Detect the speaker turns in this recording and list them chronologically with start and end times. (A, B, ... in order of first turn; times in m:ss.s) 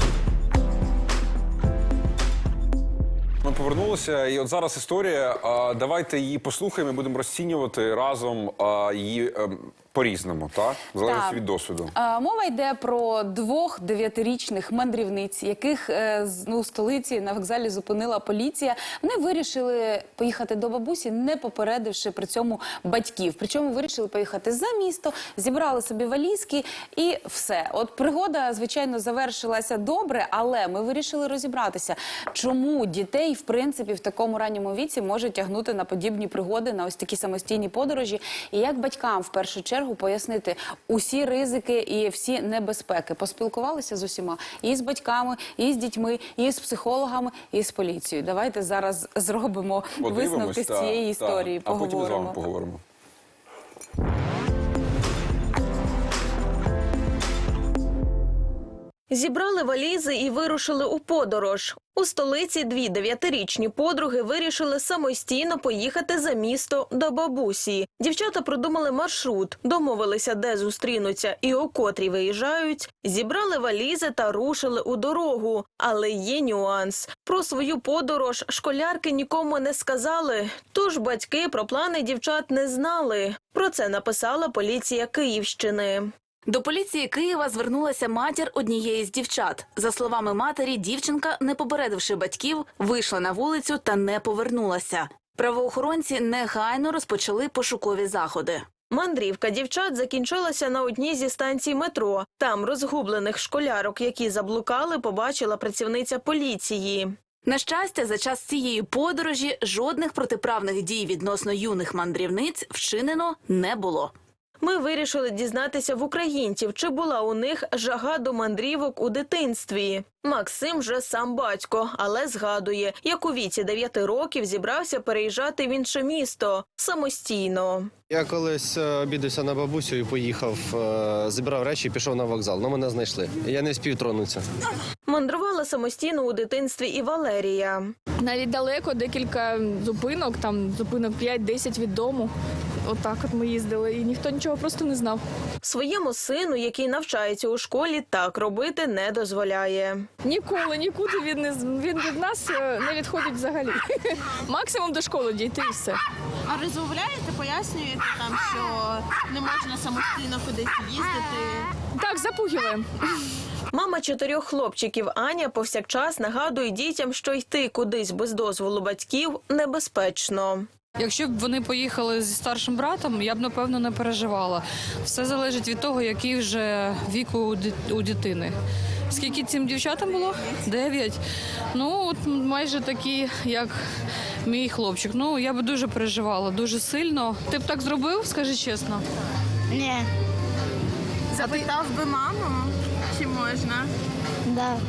0:03.4-0:11.9 A
0:11.1-0:11.4 B
0:12.0-0:52.4 B
0:50.0-0:52.8 A
0:59.1-1:26.1 C
1:26.5-1:38.6 D
1:38.9-1:47.1 C
1:47.4-1:54.1 D
1:54.6-2:07.9 C
2:08.1-2:14.4 E
2:15.1-2:17.9 C
2:18.2-2:22.3 F
2:22.8-2:25.2 F
2:25.6-2:30.1 C
2:30.2-2:36.0 F
2:36.5-2:41.6 G
2:41.9-2:42.9 F
2:43.7-2:50.7 C
2:51.0-2:58.5 H
2:59.1-3:01.2 H
3:01.7-3:03.8 H
3:04.4-3:09.0 H
3:09.7-3:10.0 G
3:11.3-3:13.9 G
3:14.5-3:14.8 G